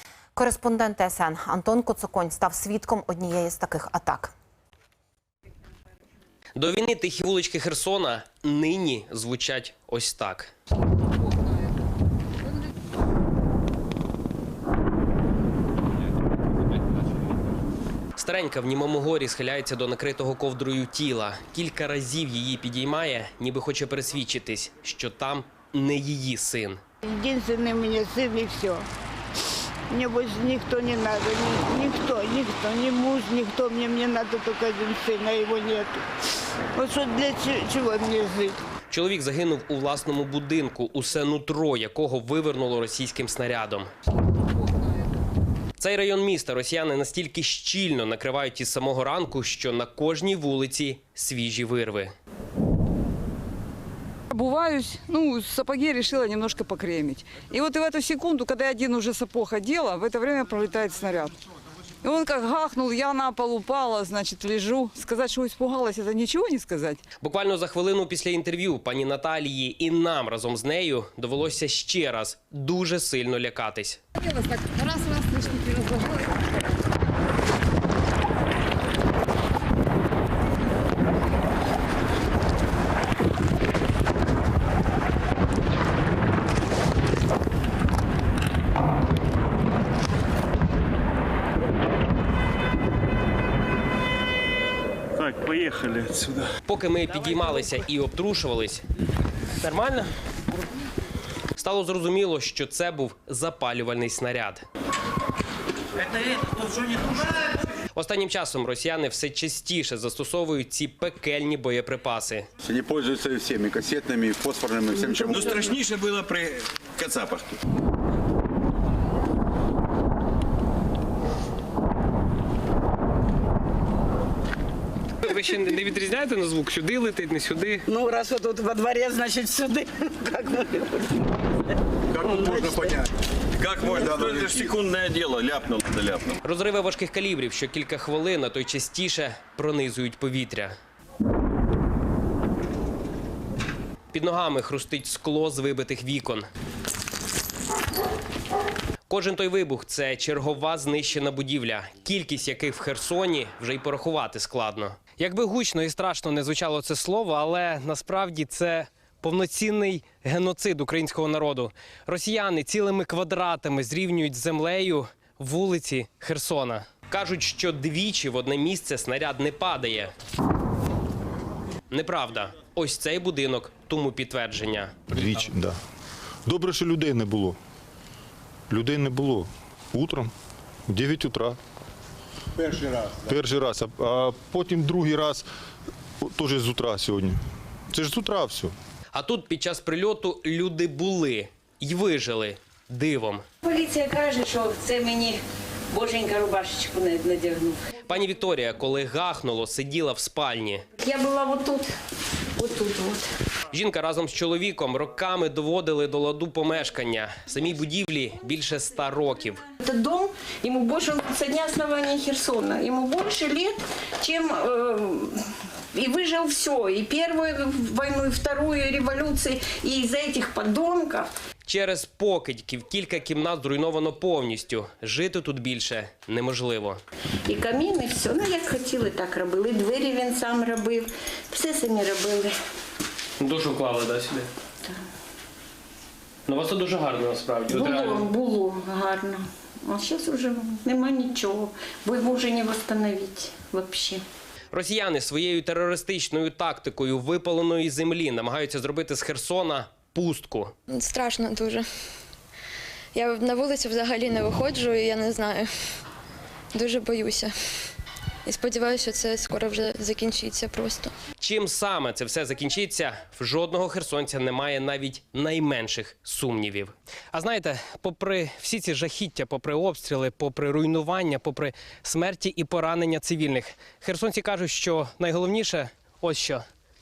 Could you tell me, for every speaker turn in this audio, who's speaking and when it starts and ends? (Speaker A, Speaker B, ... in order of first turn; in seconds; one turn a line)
Speaker A: 0.3-4.3
Speaker B: 6.6-10.5
Speaker B: 18.2-26.8
Speaker C: 27.1-28.9
Speaker C: 29.9-36.0
Speaker C: 36.7-38.6
Speaker B: 38.9-43.9
Speaker B: 45.8-52.1
Speaker D: 54.3-61.4
Speaker D: 62.0-67.0
Speaker B: 67.2-74.0
Speaker D: 74.2-76.1
Speaker E: 95.2-96.4
Speaker B: 96.7-98.8
Speaker B: 99.6-100.1
Speaker B: 101.6-104.6
Speaker B: 107.9-112.5
Speaker F: 112.6-115.8
Speaker E: 115.4-115.9
Speaker G: 115.4-116.5
Speaker B: 125.2-127.8
Speaker H: 127.9-131.2
Speaker F: 132.1-133.1
Speaker G: 133.6-136.4
Speaker F: 133.9-134.7
Speaker E: 134.0-134.3
Speaker B: 136.4-140.7
Speaker B: 144.1-146.5
Speaker B: 149.1-170.1
Speaker B: 171.9-174.9
Speaker I: 175.1-175.8
Speaker I: 176.4-177.6
Speaker I: 178.7-180.3
Speaker I: 180.9-181.6
Speaker F: 182.6-183.2
Speaker I: 183.2-185.4
Speaker I: 186.2-187.4
Speaker I: 187.9-188.7
Speaker B: 189.1-193.4
Speaker J: 193.7-197.9
Speaker B: 198.1-200.9
Speaker J: 201.0-201.9
Speaker J: 202.6-203.3
Speaker B: 203.7-209.6
Speaker J: 209.8-221.3
Speaker B: 221.7-227.0
Speaker J: 227.5-232.5
Speaker B: 233.4-234.5
Speaker B: 236.5-238.3
Speaker J: 237.7-244.2
Speaker B: 244.7-250.8
Speaker K: 250.9-251.8
Speaker K: 253.1-255.7
Speaker K: 256.7-257.5
Speaker K: 258.4-261.1
Speaker B: 261.4-276.6